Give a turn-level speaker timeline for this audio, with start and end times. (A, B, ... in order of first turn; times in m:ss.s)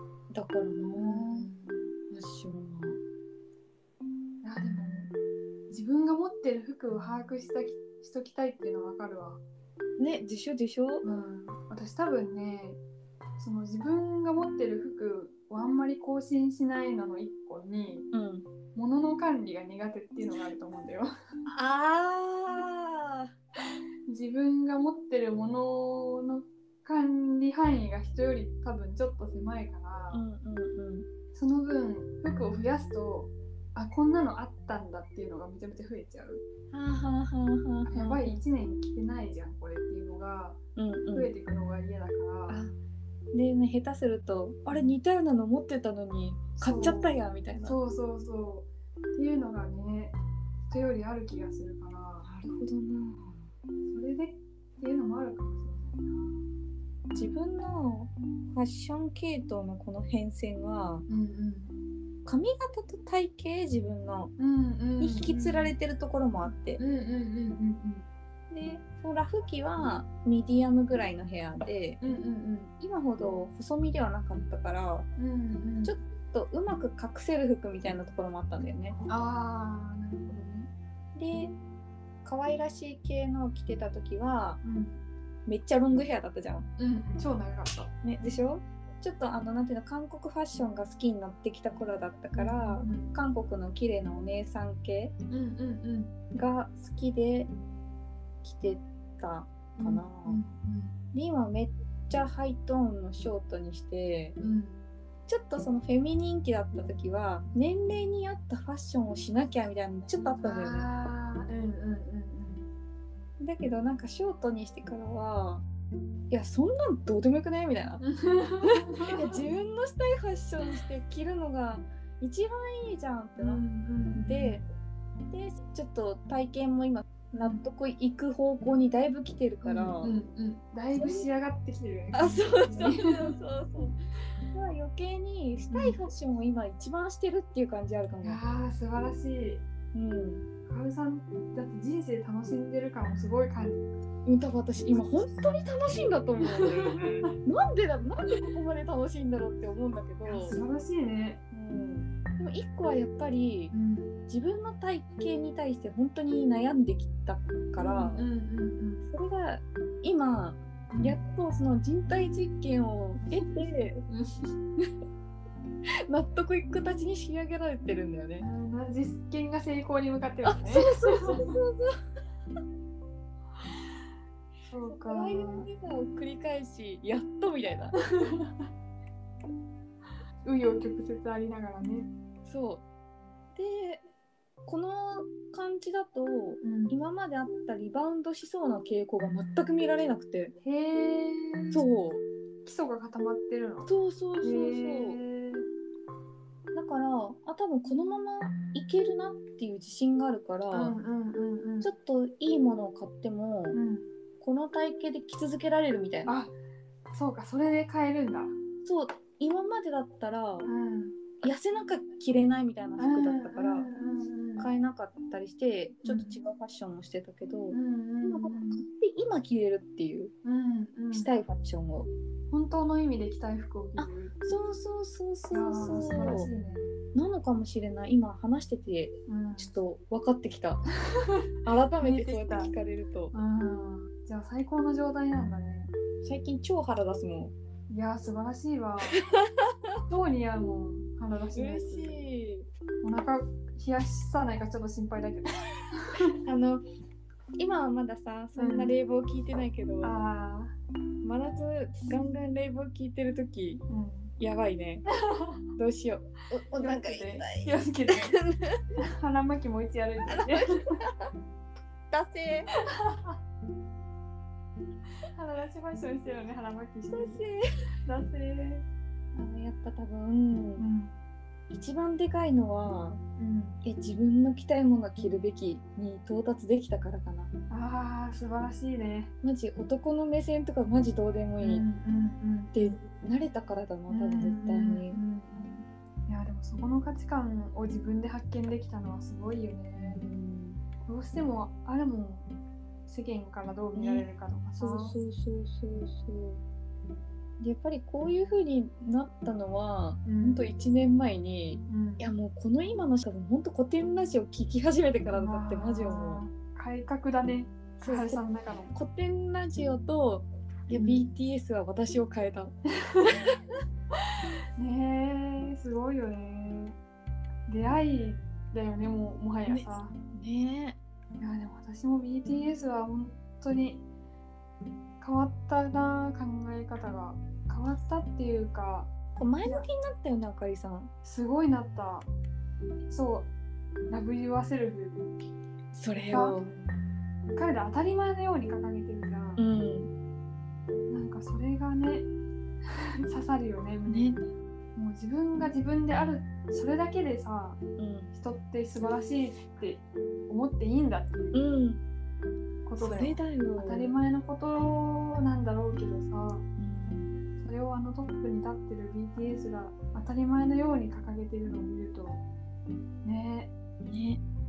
0:00.3-0:01.5 A
0:01.0-0:01.9 B
0:02.1-0:03.0 A
0:04.4-0:05.1 B
0:05.7-0:09.4 B
0:10.0-0:11.0 A
0:11.0-0:12.8 B
0:13.4-0:18.1 B
0:18.1-0:18.5 A
0:18.8-0:21.1 B
0:21.5-0:23.3 A
0:24.1-0:30.2 B
0:30.1-0:31.1 A
0:31.4-0:36.4 B
0:36.7-0:38.4 A
0:37.8-0:40.6 B
0:40.8-0:41.3 A
0:41.1-0:42.6 B
0:42.5-0:42.8 A
0:43.3-0:47.8 A
0:46.6-0:50.2 B
0:50.7-0:52.3 B
0:52.2-0:53.5 A
0:53.9-0:56.4 B
0:57.1-1:01.1 A
1:01.1-1:01.8 B
1:02.2-1:04.3 A
1:04.4-1:05.8 B
1:05.0-1:06.8 A
1:06.8-1:08.1 B
1:08.5-1:12.0 A
1:12.0-1:12.7 B
1:12.8-1:15.1 A
1:15.2-1:16.0 B
1:15.8-1:19.0 A
1:19.1-1:20.7 B
1:21.2-1:21.5 A
1:22.2-1:24.6 A
1:24.6-1:25.0 B
1:25.5-1:26.7 A
1:26.8-1:27.9 B
1:28.0-1:35.1 A
1:32.4-1:33.1 B
1:35.3-1:36.1 B
1:36.3-1:37.5 A
1:38.4-1:40.4 A
1:39.8-1:41.0 B
1:41.1-1:44.4 A
1:44.4-1:44.8 B
1:45.3-1:50.8 A
1:50.4-1:52.7 B
1:53.4-1:55.6 A
1:56.3-1:58.0 A
1:58.0-1:59.4 B
1:58.6-2:03.6 A
2:03.4-2:04.6 B
2:04.2-2:04.6 A
2:05.3-2:10.2 A
2:07.4-2:07.6 B
2:09.6-2:13.3 B
2:10.9-2:11.3 A
2:12.1-2:14.0 A
2:14.5-2:18.4 A
2:15.7-2:16.0 B
2:18.2-2:19.6 B
2:19.9-2:20.5 A
2:20.7-2:23.8 B
2:24.2-2:30.6 A
2:26.6-2:27.1 B
2:30.2-2:31.4 B
2:31.5-2:33.7 A
2:33.7-2:34.2 B
2:34.3-2:38.3 A
2:37.8-2:39.1 B
2:39.1-2:44.0 A
2:40.9-2:41.2 B
2:43.3-2:44.5 B
2:46.1-2:48.5 A
2:48.4-2:51.4 B
2:50.5-2:51.9 A
2:54.7-2:55.7 B
2:54.9-2:58.0 A
2:58.1-2:58.7 B
3:00.4-3:02.1 B
3:02.4-3:02.8 A
3:03.6-3:04.0 A
3:04.7-3:10.5 A
3:06.6-3:07.0 B
3:10.6-3:11.8 B
3:11.7-3:12.2 A
3:12.6-3:15.7 B
3:13.9-3:15.2 A
3:16.7-3:21.0 A
3:20.7-3:21.9 B
3:21.8-3:23.8 A
3:23.7-3:24.1 B
3:24.4-3:26.3 A
3:26.2-3:26.6 B
3:27.1-3:28.5 B
3:28.8-3:30.7 A
3:30.6-3:31.2 B
3:31.4-3:33.9 A
3:33.0-3:34.7 B
3:34.6-3:40.3 A
3:36.0-3:36.4 B
3:37.7-3:38.8 B
3:40.4-3:41.3 B
3:41.1-3:42.1 A
3:42.5-3:44.4 B
3:44.0-3:46.5 A
3:45.5-3:46.9 B
3:47.1-3:50.8 A
3:49.3-3:49.7 B
3:51.6-3:53.3 A
3:52.0-3:52.7 B
3:53.3-3:55.9 B
3:56.2-3:57.5 A
3:57.9-3:59.2 B
3:59.1-3:59.7 A
4:00.1-4:02.2 B
4:01.6-4:02.7 A
4:03.0-4:06.3 B
4:06.4-4:06.8 A
4:07.6-4:10.2 A
4:08.6-4:09.0 B
4:10.0-4:10.7 B
4:11.2-4:13.8 A
4:13.9-4:14.3 B
4:14.4-4:15.0 A
4:15.2-4:15.6 B
4:15.8-4:18.8 A
4:16.8-4:18.3 B
4:19.0-4:21.0 B
4:22.1-4:22.7 A
4:22.9-4:23.4 B
4:25.3-4:27.4 B
4:27.1-4:27.6 A
4:28.0-4:28.8 B
4:29.3-4:30.9 A
4:30.8-4:31.2 B
4:31.7-4:33.2 A
4:33.4-4:33.8 B
4:33.8-4:37.5 A
4:37.7-4:39.3 B
4:39.4-4:41.8 A
4:41.6-4:42.9 B
4:42.7-4:45.2 A
4:44.1-4:50.3 B
4:49.9-4:50.8 A
4:51.0-4:52.5 B
4:53.1-4:55.2 B
4:54.0-4:54.3 A
4:54.8-4:56.6 A
4:57.6-5:06.4 A
5:00.2-5:00.7 B
5:01.9-5:02.3 B
5:05.3-5:08.9 B
5:08.0-5:08.4 A
5:08.9-5:12.7 A
5:10.9-5:11.3 B
5:13.0-5:13.5 B
5:14.8-5:17.0 B
5:17.7-5:20.1 B
5:19.7-5:21.0 A
5:21.4-5:24.0 B
5:25.2-5:29.1 B
5:29.4-5:31.1 A
5:31.2-5:32.3 B
5:33.1-5:33.5 B
5:34.1-5:35.4 B
5:35.9-5:36.9 A
5:36.3-5:36.6 B
5:37.6-5:39.6 B
5:39.6-5:40.1 A
5:41.1-5:42.3 B
5:43.2-5:44.4 B
5:44.1-5:44.4 A
5:45.0-5:47.8 B
5:48.0-5:48.3 A
5:48.3-5:51.6 B
5:51.5-5:52.0 A
5:52.9-5:56.6 B
5:53.0-5:54.1 A
5:56.8-5:57.3 A
5:57.6-6:02.4 B
6:03.2-6:03.7 B
6:04.0-6:04.4 A